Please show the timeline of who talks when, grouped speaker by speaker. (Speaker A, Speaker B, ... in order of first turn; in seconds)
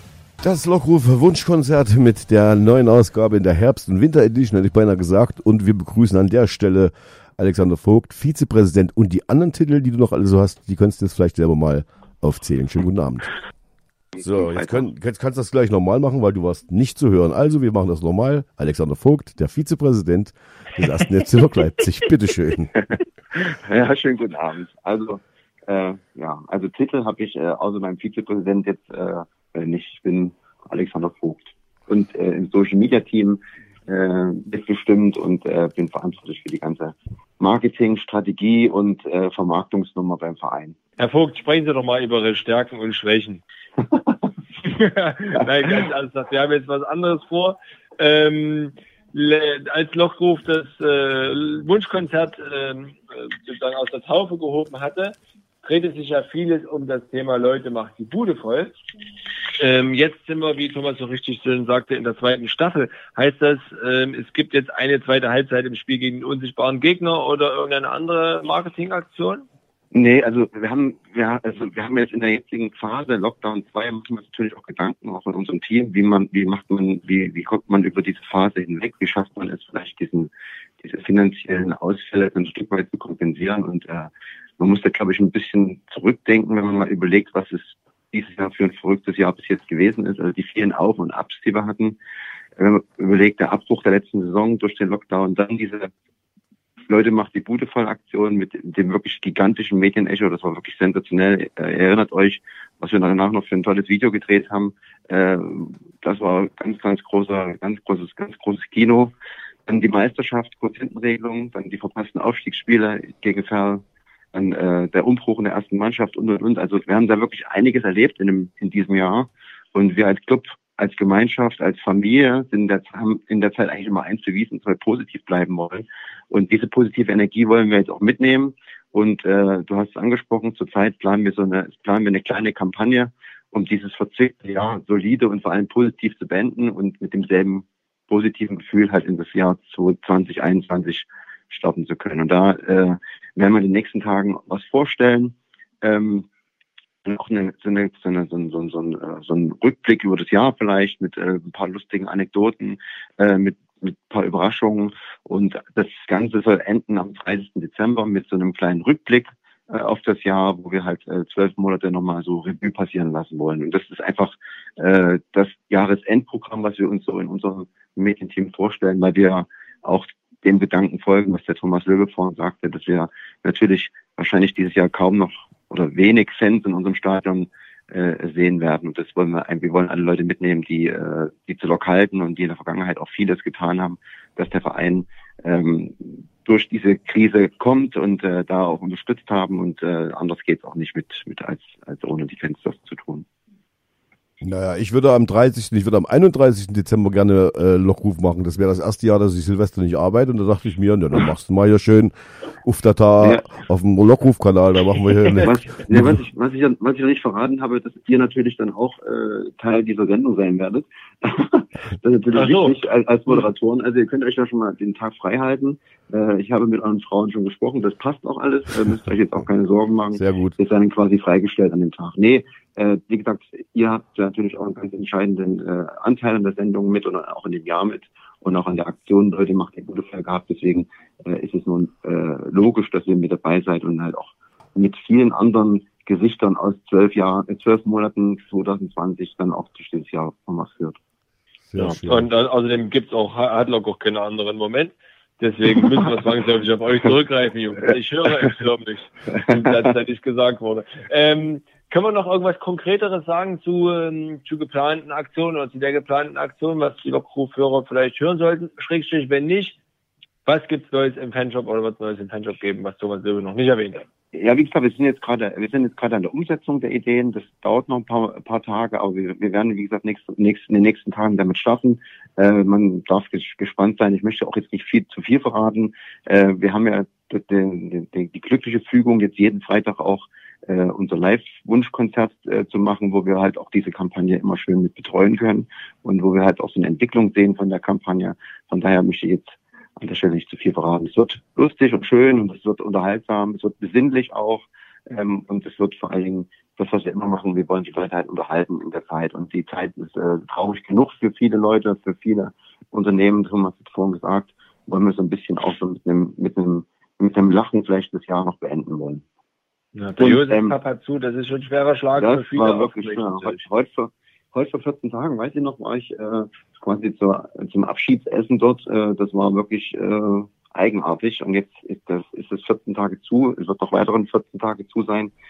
Speaker A: 0.4-13.3, 14.2-22.8, 194.4-206.2, 220.1-220.6, 241.7-242.3
Speaker B: 14.2-14.8, 23.7-40.8, 69.9-80.3, 80.8-84.1, 84.6-92.0, 92.6-95.9, 96.9-109.1, 109.7-113.8, 114.3-146.3, 147.1-193.2, 205.4-241.0, 264.3-309.2, 310.2-310.8, 312.2-325.3
Speaker C: 41.0-43.4, 44.6-58.7, 59.6-69.5, 212.3-212.8, 241.8-259.8, 260.5-264.1, 309.9-313.6